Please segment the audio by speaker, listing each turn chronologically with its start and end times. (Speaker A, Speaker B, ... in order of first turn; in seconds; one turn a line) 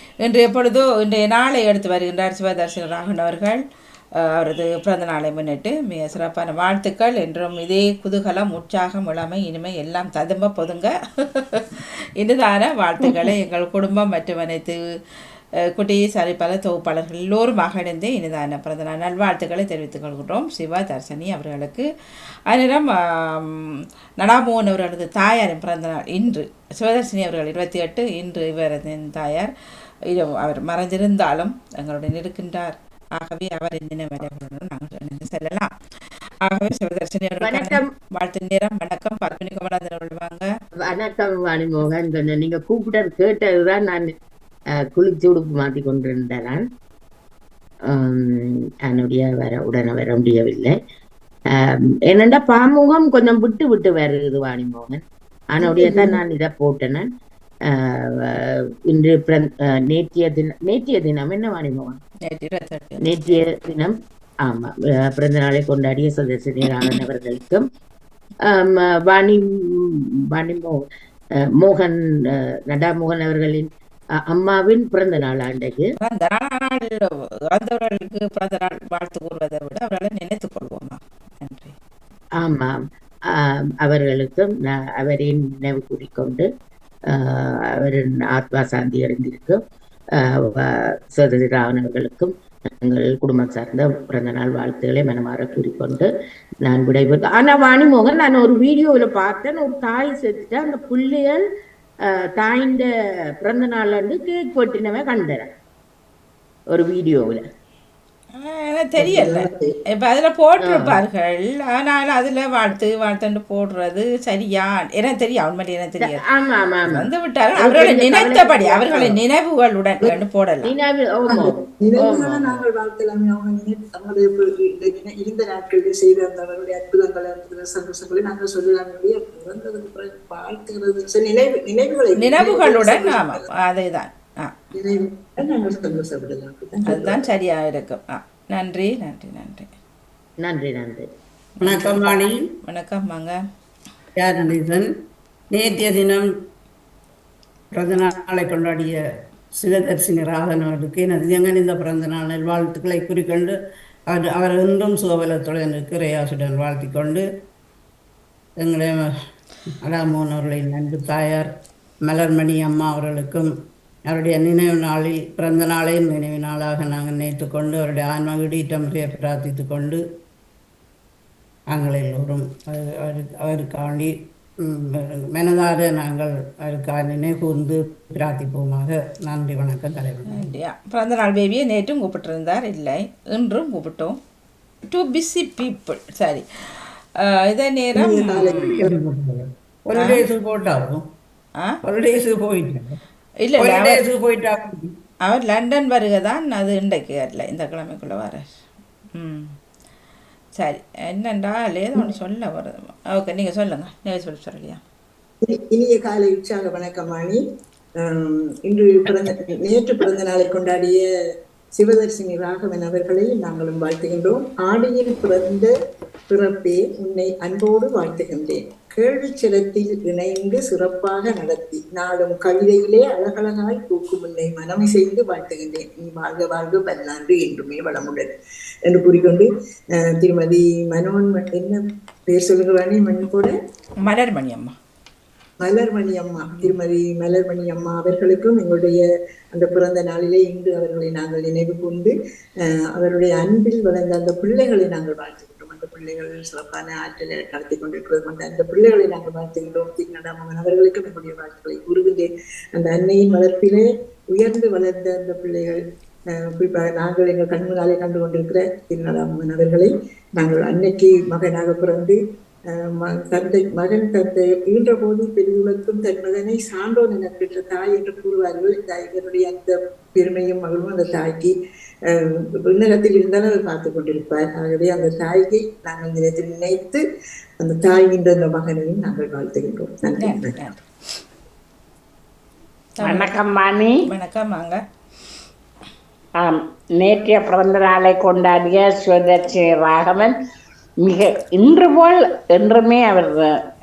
Speaker A: 0.2-3.6
Speaker A: 4.3-11.7
Speaker A: 12.2-14.8
Speaker A: 15.8-21.9
Speaker A: 22.5-23.7
Speaker A: 24.2-29.5
Speaker A: 30.1-35.7
Speaker A: 36.5-40.5
Speaker B: 37.4-37.9
Speaker B: 40.9-44.1
Speaker B: 44.8-46.6
Speaker B: 47.9-50.8
Speaker B: 51.5-55.0
Speaker B: 55.5-57.0
Speaker C: 55.6-56.2
Speaker B: 57.7-62.0
Speaker A: 62.2-63.1
Speaker B: 63.0-67.7
Speaker B: 68.5-70.8
Speaker B: 71.4-73.7
Speaker B: 74.2-75.9
Speaker A: 76.0-81.7
Speaker B: 82.4-82.8
Speaker B: 83.3-86.5
Speaker B: 87.1-89.6
Speaker B: 90.2-96.1
Speaker B: 96.7-101.4
Speaker B: 102.4-102.8
Speaker B: 103.4-105.5
Speaker B: 106.7-107.4
Speaker A: 108.3-116.2
Speaker C: 109.0-109.7
Speaker B: 110.7-111.0
Speaker B: 116.3-117.1
Speaker A: 116.9-120.7
Speaker B: 117.6-119.1
Speaker B: 120.7-122.5
Speaker C: 121.3-133.5
Speaker A: 132.2-134.5
Speaker C: 134.8-137.2
Speaker A: 136.9-139.7
Speaker B: 140.4-141.1
Speaker A: 141.6-143.4
Speaker D: 141.6-142.5
Speaker D: 144.2-144.9
Speaker D: 145.5-146.3
Speaker D: 147.7-149.0
Speaker D: 149.5-153.5
Speaker D: 154.1-157.2
Speaker D: 158.6-159.0
Speaker D: 159.8-161.5
Speaker D: 162.1-163.5
Speaker D: 164.1-170.0
Speaker D: 171.7-180.5
Speaker A: 180.3-184.2
Speaker A: 184.9-188.8
Speaker C: 188.0-188.9
Speaker D: 188.3-191.1
Speaker D: 191.8-192.9
Speaker A: 193.4-194.0
Speaker D: 193.6-194.9
Speaker A: 195.2-198.5
Speaker A: 199.2-199.5
Speaker A: 200.6-204.8
Speaker C: 205.4-207.4
Speaker C: 208.0-211.1
Speaker C: 211.8-215.7
Speaker C: 216.3-228.3
Speaker C: 228.9-233.5
Speaker A: 234.0-234.7
Speaker C: 235.6-242.1
Speaker C: 242.7-255.8
Speaker C: 256.3-262.2
Speaker C: 262.7-271.5
Speaker C: 272.1-277.0
Speaker C: 277.6-280.6
Speaker A: 280.2-280.8
Speaker A: 283.0-283.4
Speaker E: 283.0-284.0
Speaker A: 284.1-284.8
Speaker E: 286.4-290.3
Speaker E: 291.0-293.6